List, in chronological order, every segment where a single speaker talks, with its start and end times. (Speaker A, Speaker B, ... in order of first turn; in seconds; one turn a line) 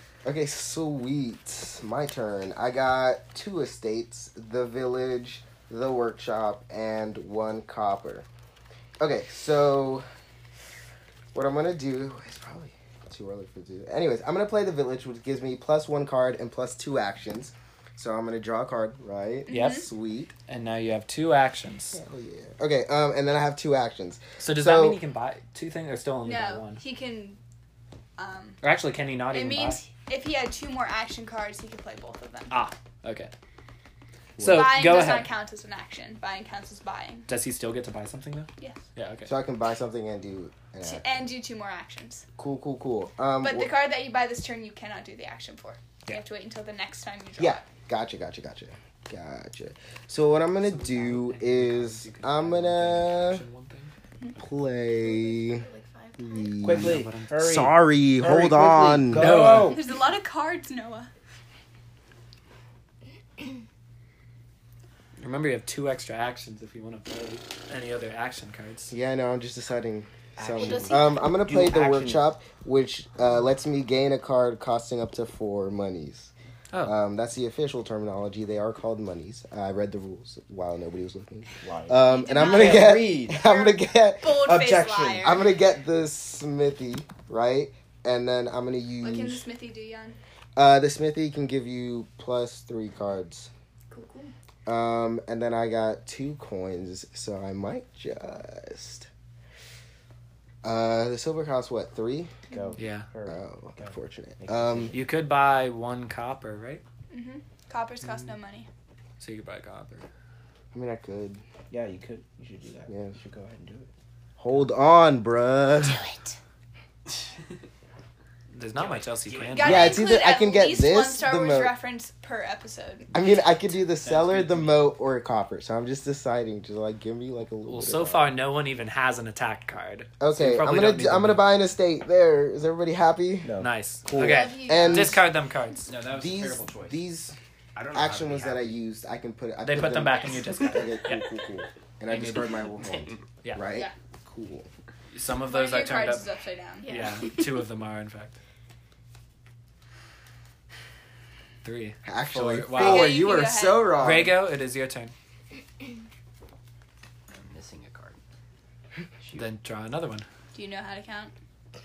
Speaker A: 0.2-8.3
Speaker A: 9.0-10.1
Speaker A: 11.3-20.3
Speaker B: 19.5-19.9
Speaker C: 19.5-19.9
Speaker C: 20.5-22.0
Speaker A: 21.9-25.0
Speaker C: 24.4-26.8
Speaker B: 26.2-27.4
Speaker B: 28.2-28.6
Speaker C: 28.6-29.8
Speaker B: 29.3-32.6
Speaker C: 32.5-33.3
Speaker A: 34.4-34.8
Speaker C: 34.4-35.3
Speaker B: 34.4-37.3
Speaker C: 37.3-39.3
Speaker B: 38.6-38.8
Speaker A: 39.3-41.3
Speaker B: 40.8-42.3
Speaker A: 42.4-43.7
Speaker B: 43.4-47.6
Speaker A: 47.4-53.4
Speaker C: 50.6-53.9
Speaker A: 54.4-55.7
Speaker D: 54.9-56.7
Speaker A: 56.2-59.6
Speaker E: 56.6-59.9
Speaker C: 56.6-57.4
Speaker C: 59.1-59.8
Speaker B: 59.6-61.1
Speaker C: 65.2-68.9
Speaker A: 68.9-76.3
Speaker E: 70.4-72.3
Speaker D: 70.6-71.1
Speaker A: 76.8-89.5
Speaker E: 81.6-83.5
Speaker B: 82.0-85.5
Speaker B: 89.0-90.2
Speaker A: 90.6-93.5
Speaker B: 93.9-94.3
Speaker A: 94.7-99.1
Speaker A: 100.6-102.3
Speaker E: 102.5-105.0
Speaker C: 102.8-103.1
Speaker A: 103.3-105.0
Speaker C: 104.9-106.8
Speaker B: 107.1-108.7
Speaker C: 109.2-110.1
Speaker A: 110.7-111.4
Speaker E: 111.7-113.9
Speaker A: 112.9-113.2
Speaker A: 114.4-116.0
Speaker B: 115.8-116.3
Speaker C: 118.5-120.0
Speaker F: 118.8-119.8
Speaker B: 119.5-123.1
Speaker A: 119.6-121.7
Speaker A: 123.1-128.3
Speaker F: 124.0-124.9
Speaker C: 127.7-131.4
Speaker A: 130.2-133.5
Speaker C: 133.6-135.8
Speaker A: 134.1-135.2
Speaker B: 134.3-134.9
Speaker F: 135.9-137.0
Speaker A: 136.1-137.3
Speaker F: 137.8-138.7
Speaker A: 137.9-144.7
Speaker C: 139.6-141.3
Speaker C: 142.1-142.6
Speaker C: 145.1-146.3
Speaker B: 145.4-146.9
Speaker D: 146.8-147.6
Speaker C: 146.9-148.4
Speaker C: 151.6-153.2
Speaker A: 152.0-154.4
Speaker B: 152.7-154.0
Speaker C: 154.0-155.1
Speaker F: 157.3-158.2
Speaker C: 159.3-160.3
Speaker B: 160.5-161.3